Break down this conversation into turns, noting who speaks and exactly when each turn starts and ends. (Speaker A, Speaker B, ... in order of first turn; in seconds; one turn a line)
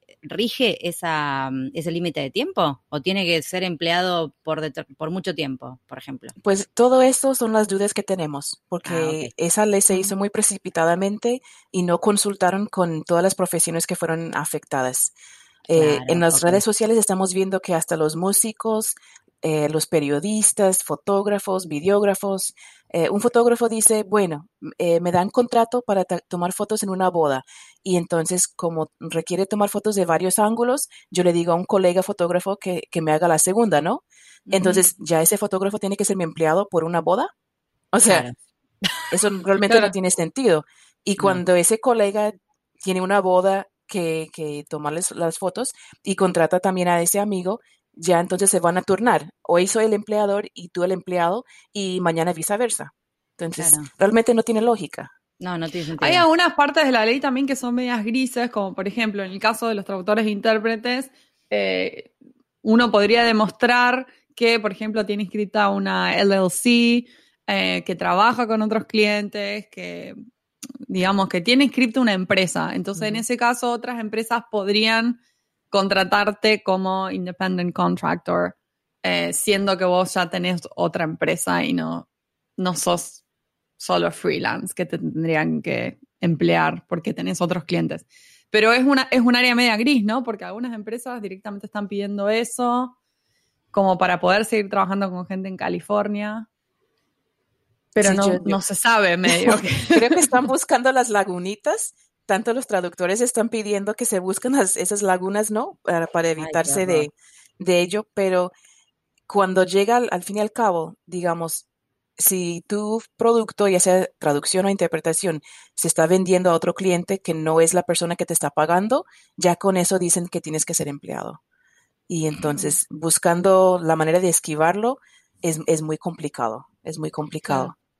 Speaker A: 0.2-6.3
Speaker B: 6.4-15.1
Speaker A: 8.8-9.3
Speaker B: 15.7-37.3
Speaker A: 15.7-16.6
Speaker A: 34.5-34.8
Speaker B: 37.9-38.3
Speaker A: 38.0-38.4
Speaker B: 39.1-55.1
Speaker A: 53.6-53.9
Speaker A: 55.4-56.2
Speaker C: 56.0-62.1
Speaker C: 62.6-70.2
Speaker C: 70.9-75.2
Speaker C: 75.7-82.1
Speaker C: 82.6-83.2
Speaker C: 83.8-93.0
Speaker C: 93.7-96.5
Speaker C: 98.0-100.2
Speaker B: 98.0-98.6
Speaker B: 99.3-108.5
Speaker A: 106.4-107.1
Speaker B: 109.3-111.7
Speaker B: 112.2-121.4
Speaker B: 122.1-127.7